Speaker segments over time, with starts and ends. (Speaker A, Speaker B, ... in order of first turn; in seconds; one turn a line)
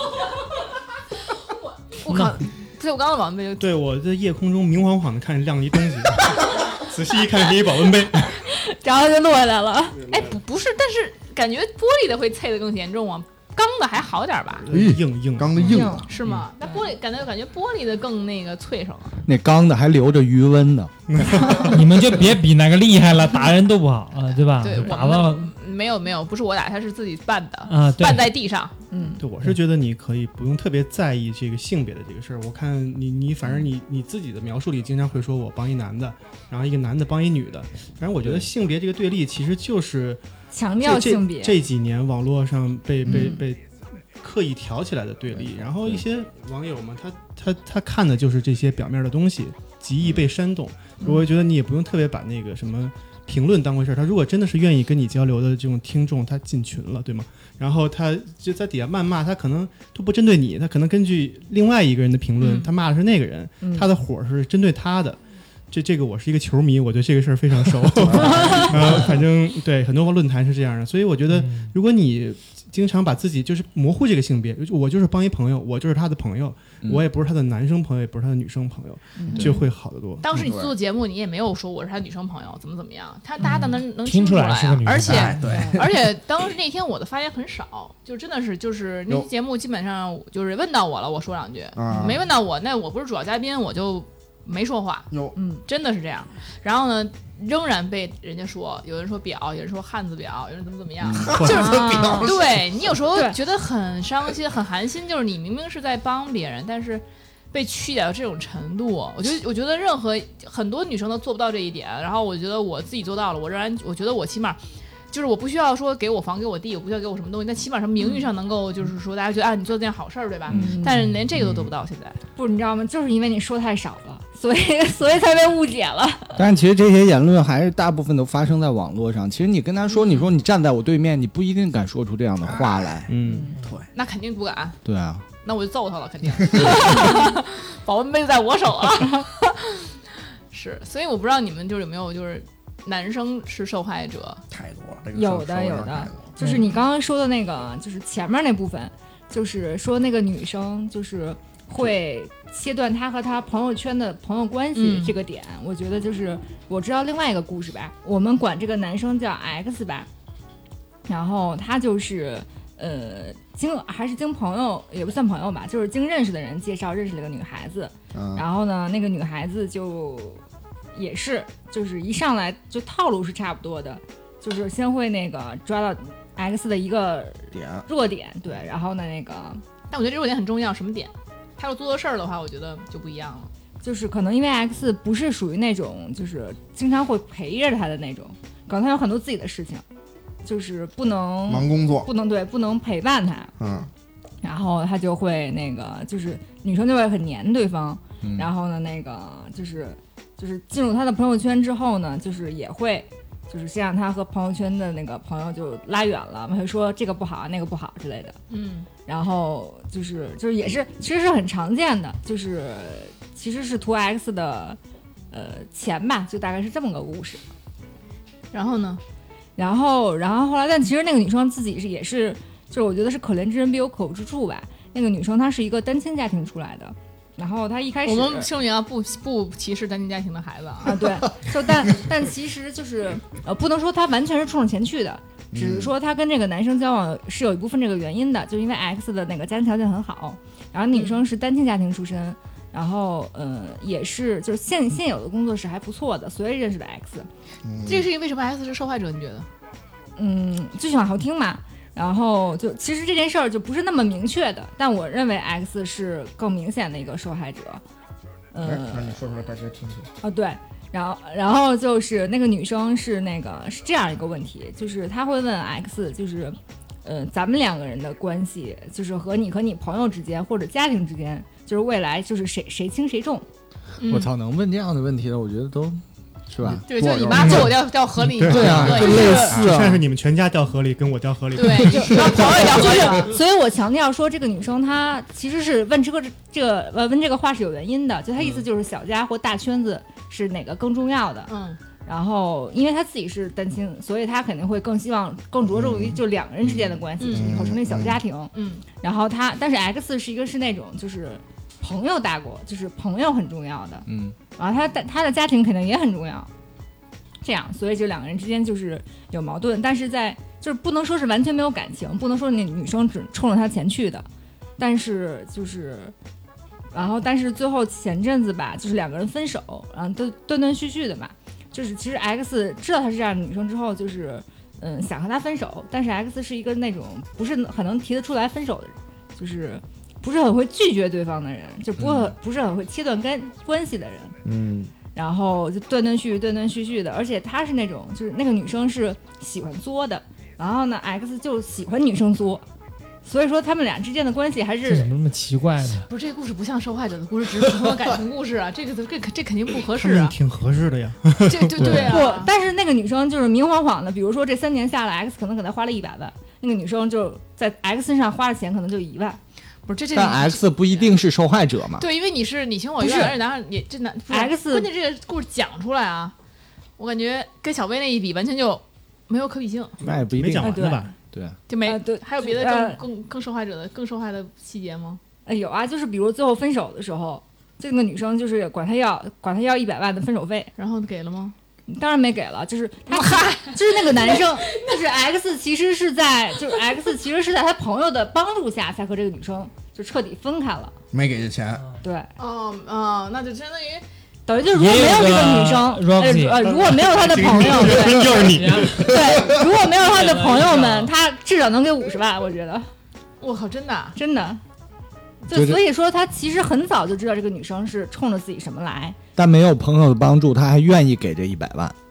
Speaker A: 1.9-3.7
Speaker B: 2.1-2.4
Speaker C: 3.6-8.4
Speaker D: 8.4-10.0
Speaker C: 10.0-10.4
Speaker A: 10.1-14.7
Speaker C: 14.6-16.4
Speaker E: 14.7-16.1
Speaker D: 15.6-16.1
Speaker A: 16.1-19.2
Speaker F: 19.3-20.9
Speaker C: 21.1-21.9
Speaker B: 21.6-25.5
Speaker A: 24.6-28.8
Speaker B: 27.7-28.3
Speaker D: 28.9-29.2
Speaker C: 29.2-40.2
Speaker D: 40.5-41.6
Speaker C: 40.8-80.3
Speaker D: 43.1-43.4
Speaker E: 45.4-45.9
Speaker D: 51.0-51.3
Speaker A: 62.4-62.7
Speaker D: 63.6-63.9
Speaker E: 68.1-68.7
Speaker D: 68.2-68.7
Speaker B: 71.3-71.7
Speaker D: 79.2-79.6
Speaker A: 80.2-95.1
Speaker E: 80.3-80.8
Speaker B: 83.5-85.6
Speaker E: 85.1-86.1
Speaker D: 85.4-85.8
Speaker E: 91.8-92.2
Speaker D: 95.4-95.6
Speaker A: 95.7-114.6
Speaker E: 101.1-102.8
Speaker D: 101.4-102.3
Speaker A: 115.1-122.2
Speaker D: 120.5-121.1
Speaker F: 120.5-120.8
Speaker D: 122.4-126.5
Speaker F: 126.4-133.1
Speaker E: 132.4-133.1
Speaker C: 133.1-133.5
Speaker D: 133.2-133.5
Speaker E: 133.6-133.9
Speaker A: 133.9-134.8
Speaker F: 134.8-135.2
Speaker A: 135.4-140.0
Speaker D: 136.9-137.3
Speaker A: 140.5-144.4
Speaker E: 144.5-146.3
Speaker D: 145.2-160.1
Speaker A: 154.8-155.2
Speaker D: 161.1-170.4
Speaker E: 168.1-168.4
Speaker D: 170.9-179.6
Speaker E: 177.5-177.8
Speaker A: 179.9-183.5
Speaker D: 183.8-189.8
Speaker D: 190.4-193.5
Speaker E: 191.5-192.1
Speaker E: 193.6-193.9
Speaker D: 194.4-208.4
Speaker F: 198.2-198.5
Speaker A: 208.5-208.9
Speaker D: 209.1-214.8
Speaker D: 215.3-217.4
Speaker A: 218.5-219.0
Speaker D: 219.6-228.5
Speaker A: 228.1-231.2
Speaker D: 230.8-247.3
Speaker E: 235.5-235.9
Speaker A: 240.9-241.2
Speaker E: 247.6-248.1
Speaker A: 247.9-249.5
Speaker D: 250.2-257.8
Speaker D: 258.5-259.2
Speaker E: 258.6-260.1
Speaker D: 260.2-273.4
Speaker A: 274.0-274.3
Speaker F: 274.1-276.8
Speaker E: 276.6-277.8
Speaker A: 276.9-279.6
Speaker C: 277.4-282.7
Speaker F: 278.5-280.0
Speaker E: 278.6-279.7
Speaker A: 281.6-283.3
Speaker D: 281.9-291.5
Speaker A: 291.5-291.8
Speaker D: 292.1-306.5
Speaker E: 295.7-296.2
Speaker A: 297.2-297.6
Speaker E: 297.2-298.2
Speaker A: 298.5-298.8
Speaker F: 304.1-304.4
Speaker D: 307.4-314.3
Speaker D: 314.8-316.1
Speaker D: 316.9-334.4
Speaker F: 332.0-332.3
Speaker E: 334.4-334.9
Speaker D: 335.1-342.6
Speaker D: 343.2-345.1
Speaker B: 344.9-346.1
Speaker A: 346.1-350.4
Speaker C: 350.0-352.0
Speaker A: 351.5-352.5
Speaker F: 351.8-352.1
Speaker D: 351.9-359.4
Speaker A: 359.9-361.2
Speaker F: 360.1-362.1
Speaker A: 362.0-366.4
Speaker D: 363.0-363.3
Speaker D: 364.3-364.9
Speaker A: 367.0-370.0
Speaker F: 370.0-371.6
Speaker C: 370.0-371.1
Speaker D: 370.6-371.1
Speaker A: 371.7-375.2
Speaker D: 371.9-373.0
Speaker D: 375.5-380.7
Speaker A: 380.8-381.6
Speaker D: 381.9-390.9
Speaker A: 383.1-385.0
Speaker E: 391.1-391.8
Speaker D: 392.0-392.3
Speaker A: 392.4-394.0
Speaker D: 394.5-402.9
Speaker B: 394.7-396.7
Speaker C: 396.6-399.1
Speaker B: 398.5-399.2
Speaker B: 399.9-401.1
Speaker A: 403.4-404.2
Speaker D: 404.2-404.6
Speaker D: 405.5-409.2
Speaker F: 405.5-405.8
Speaker F: 409.4-411.9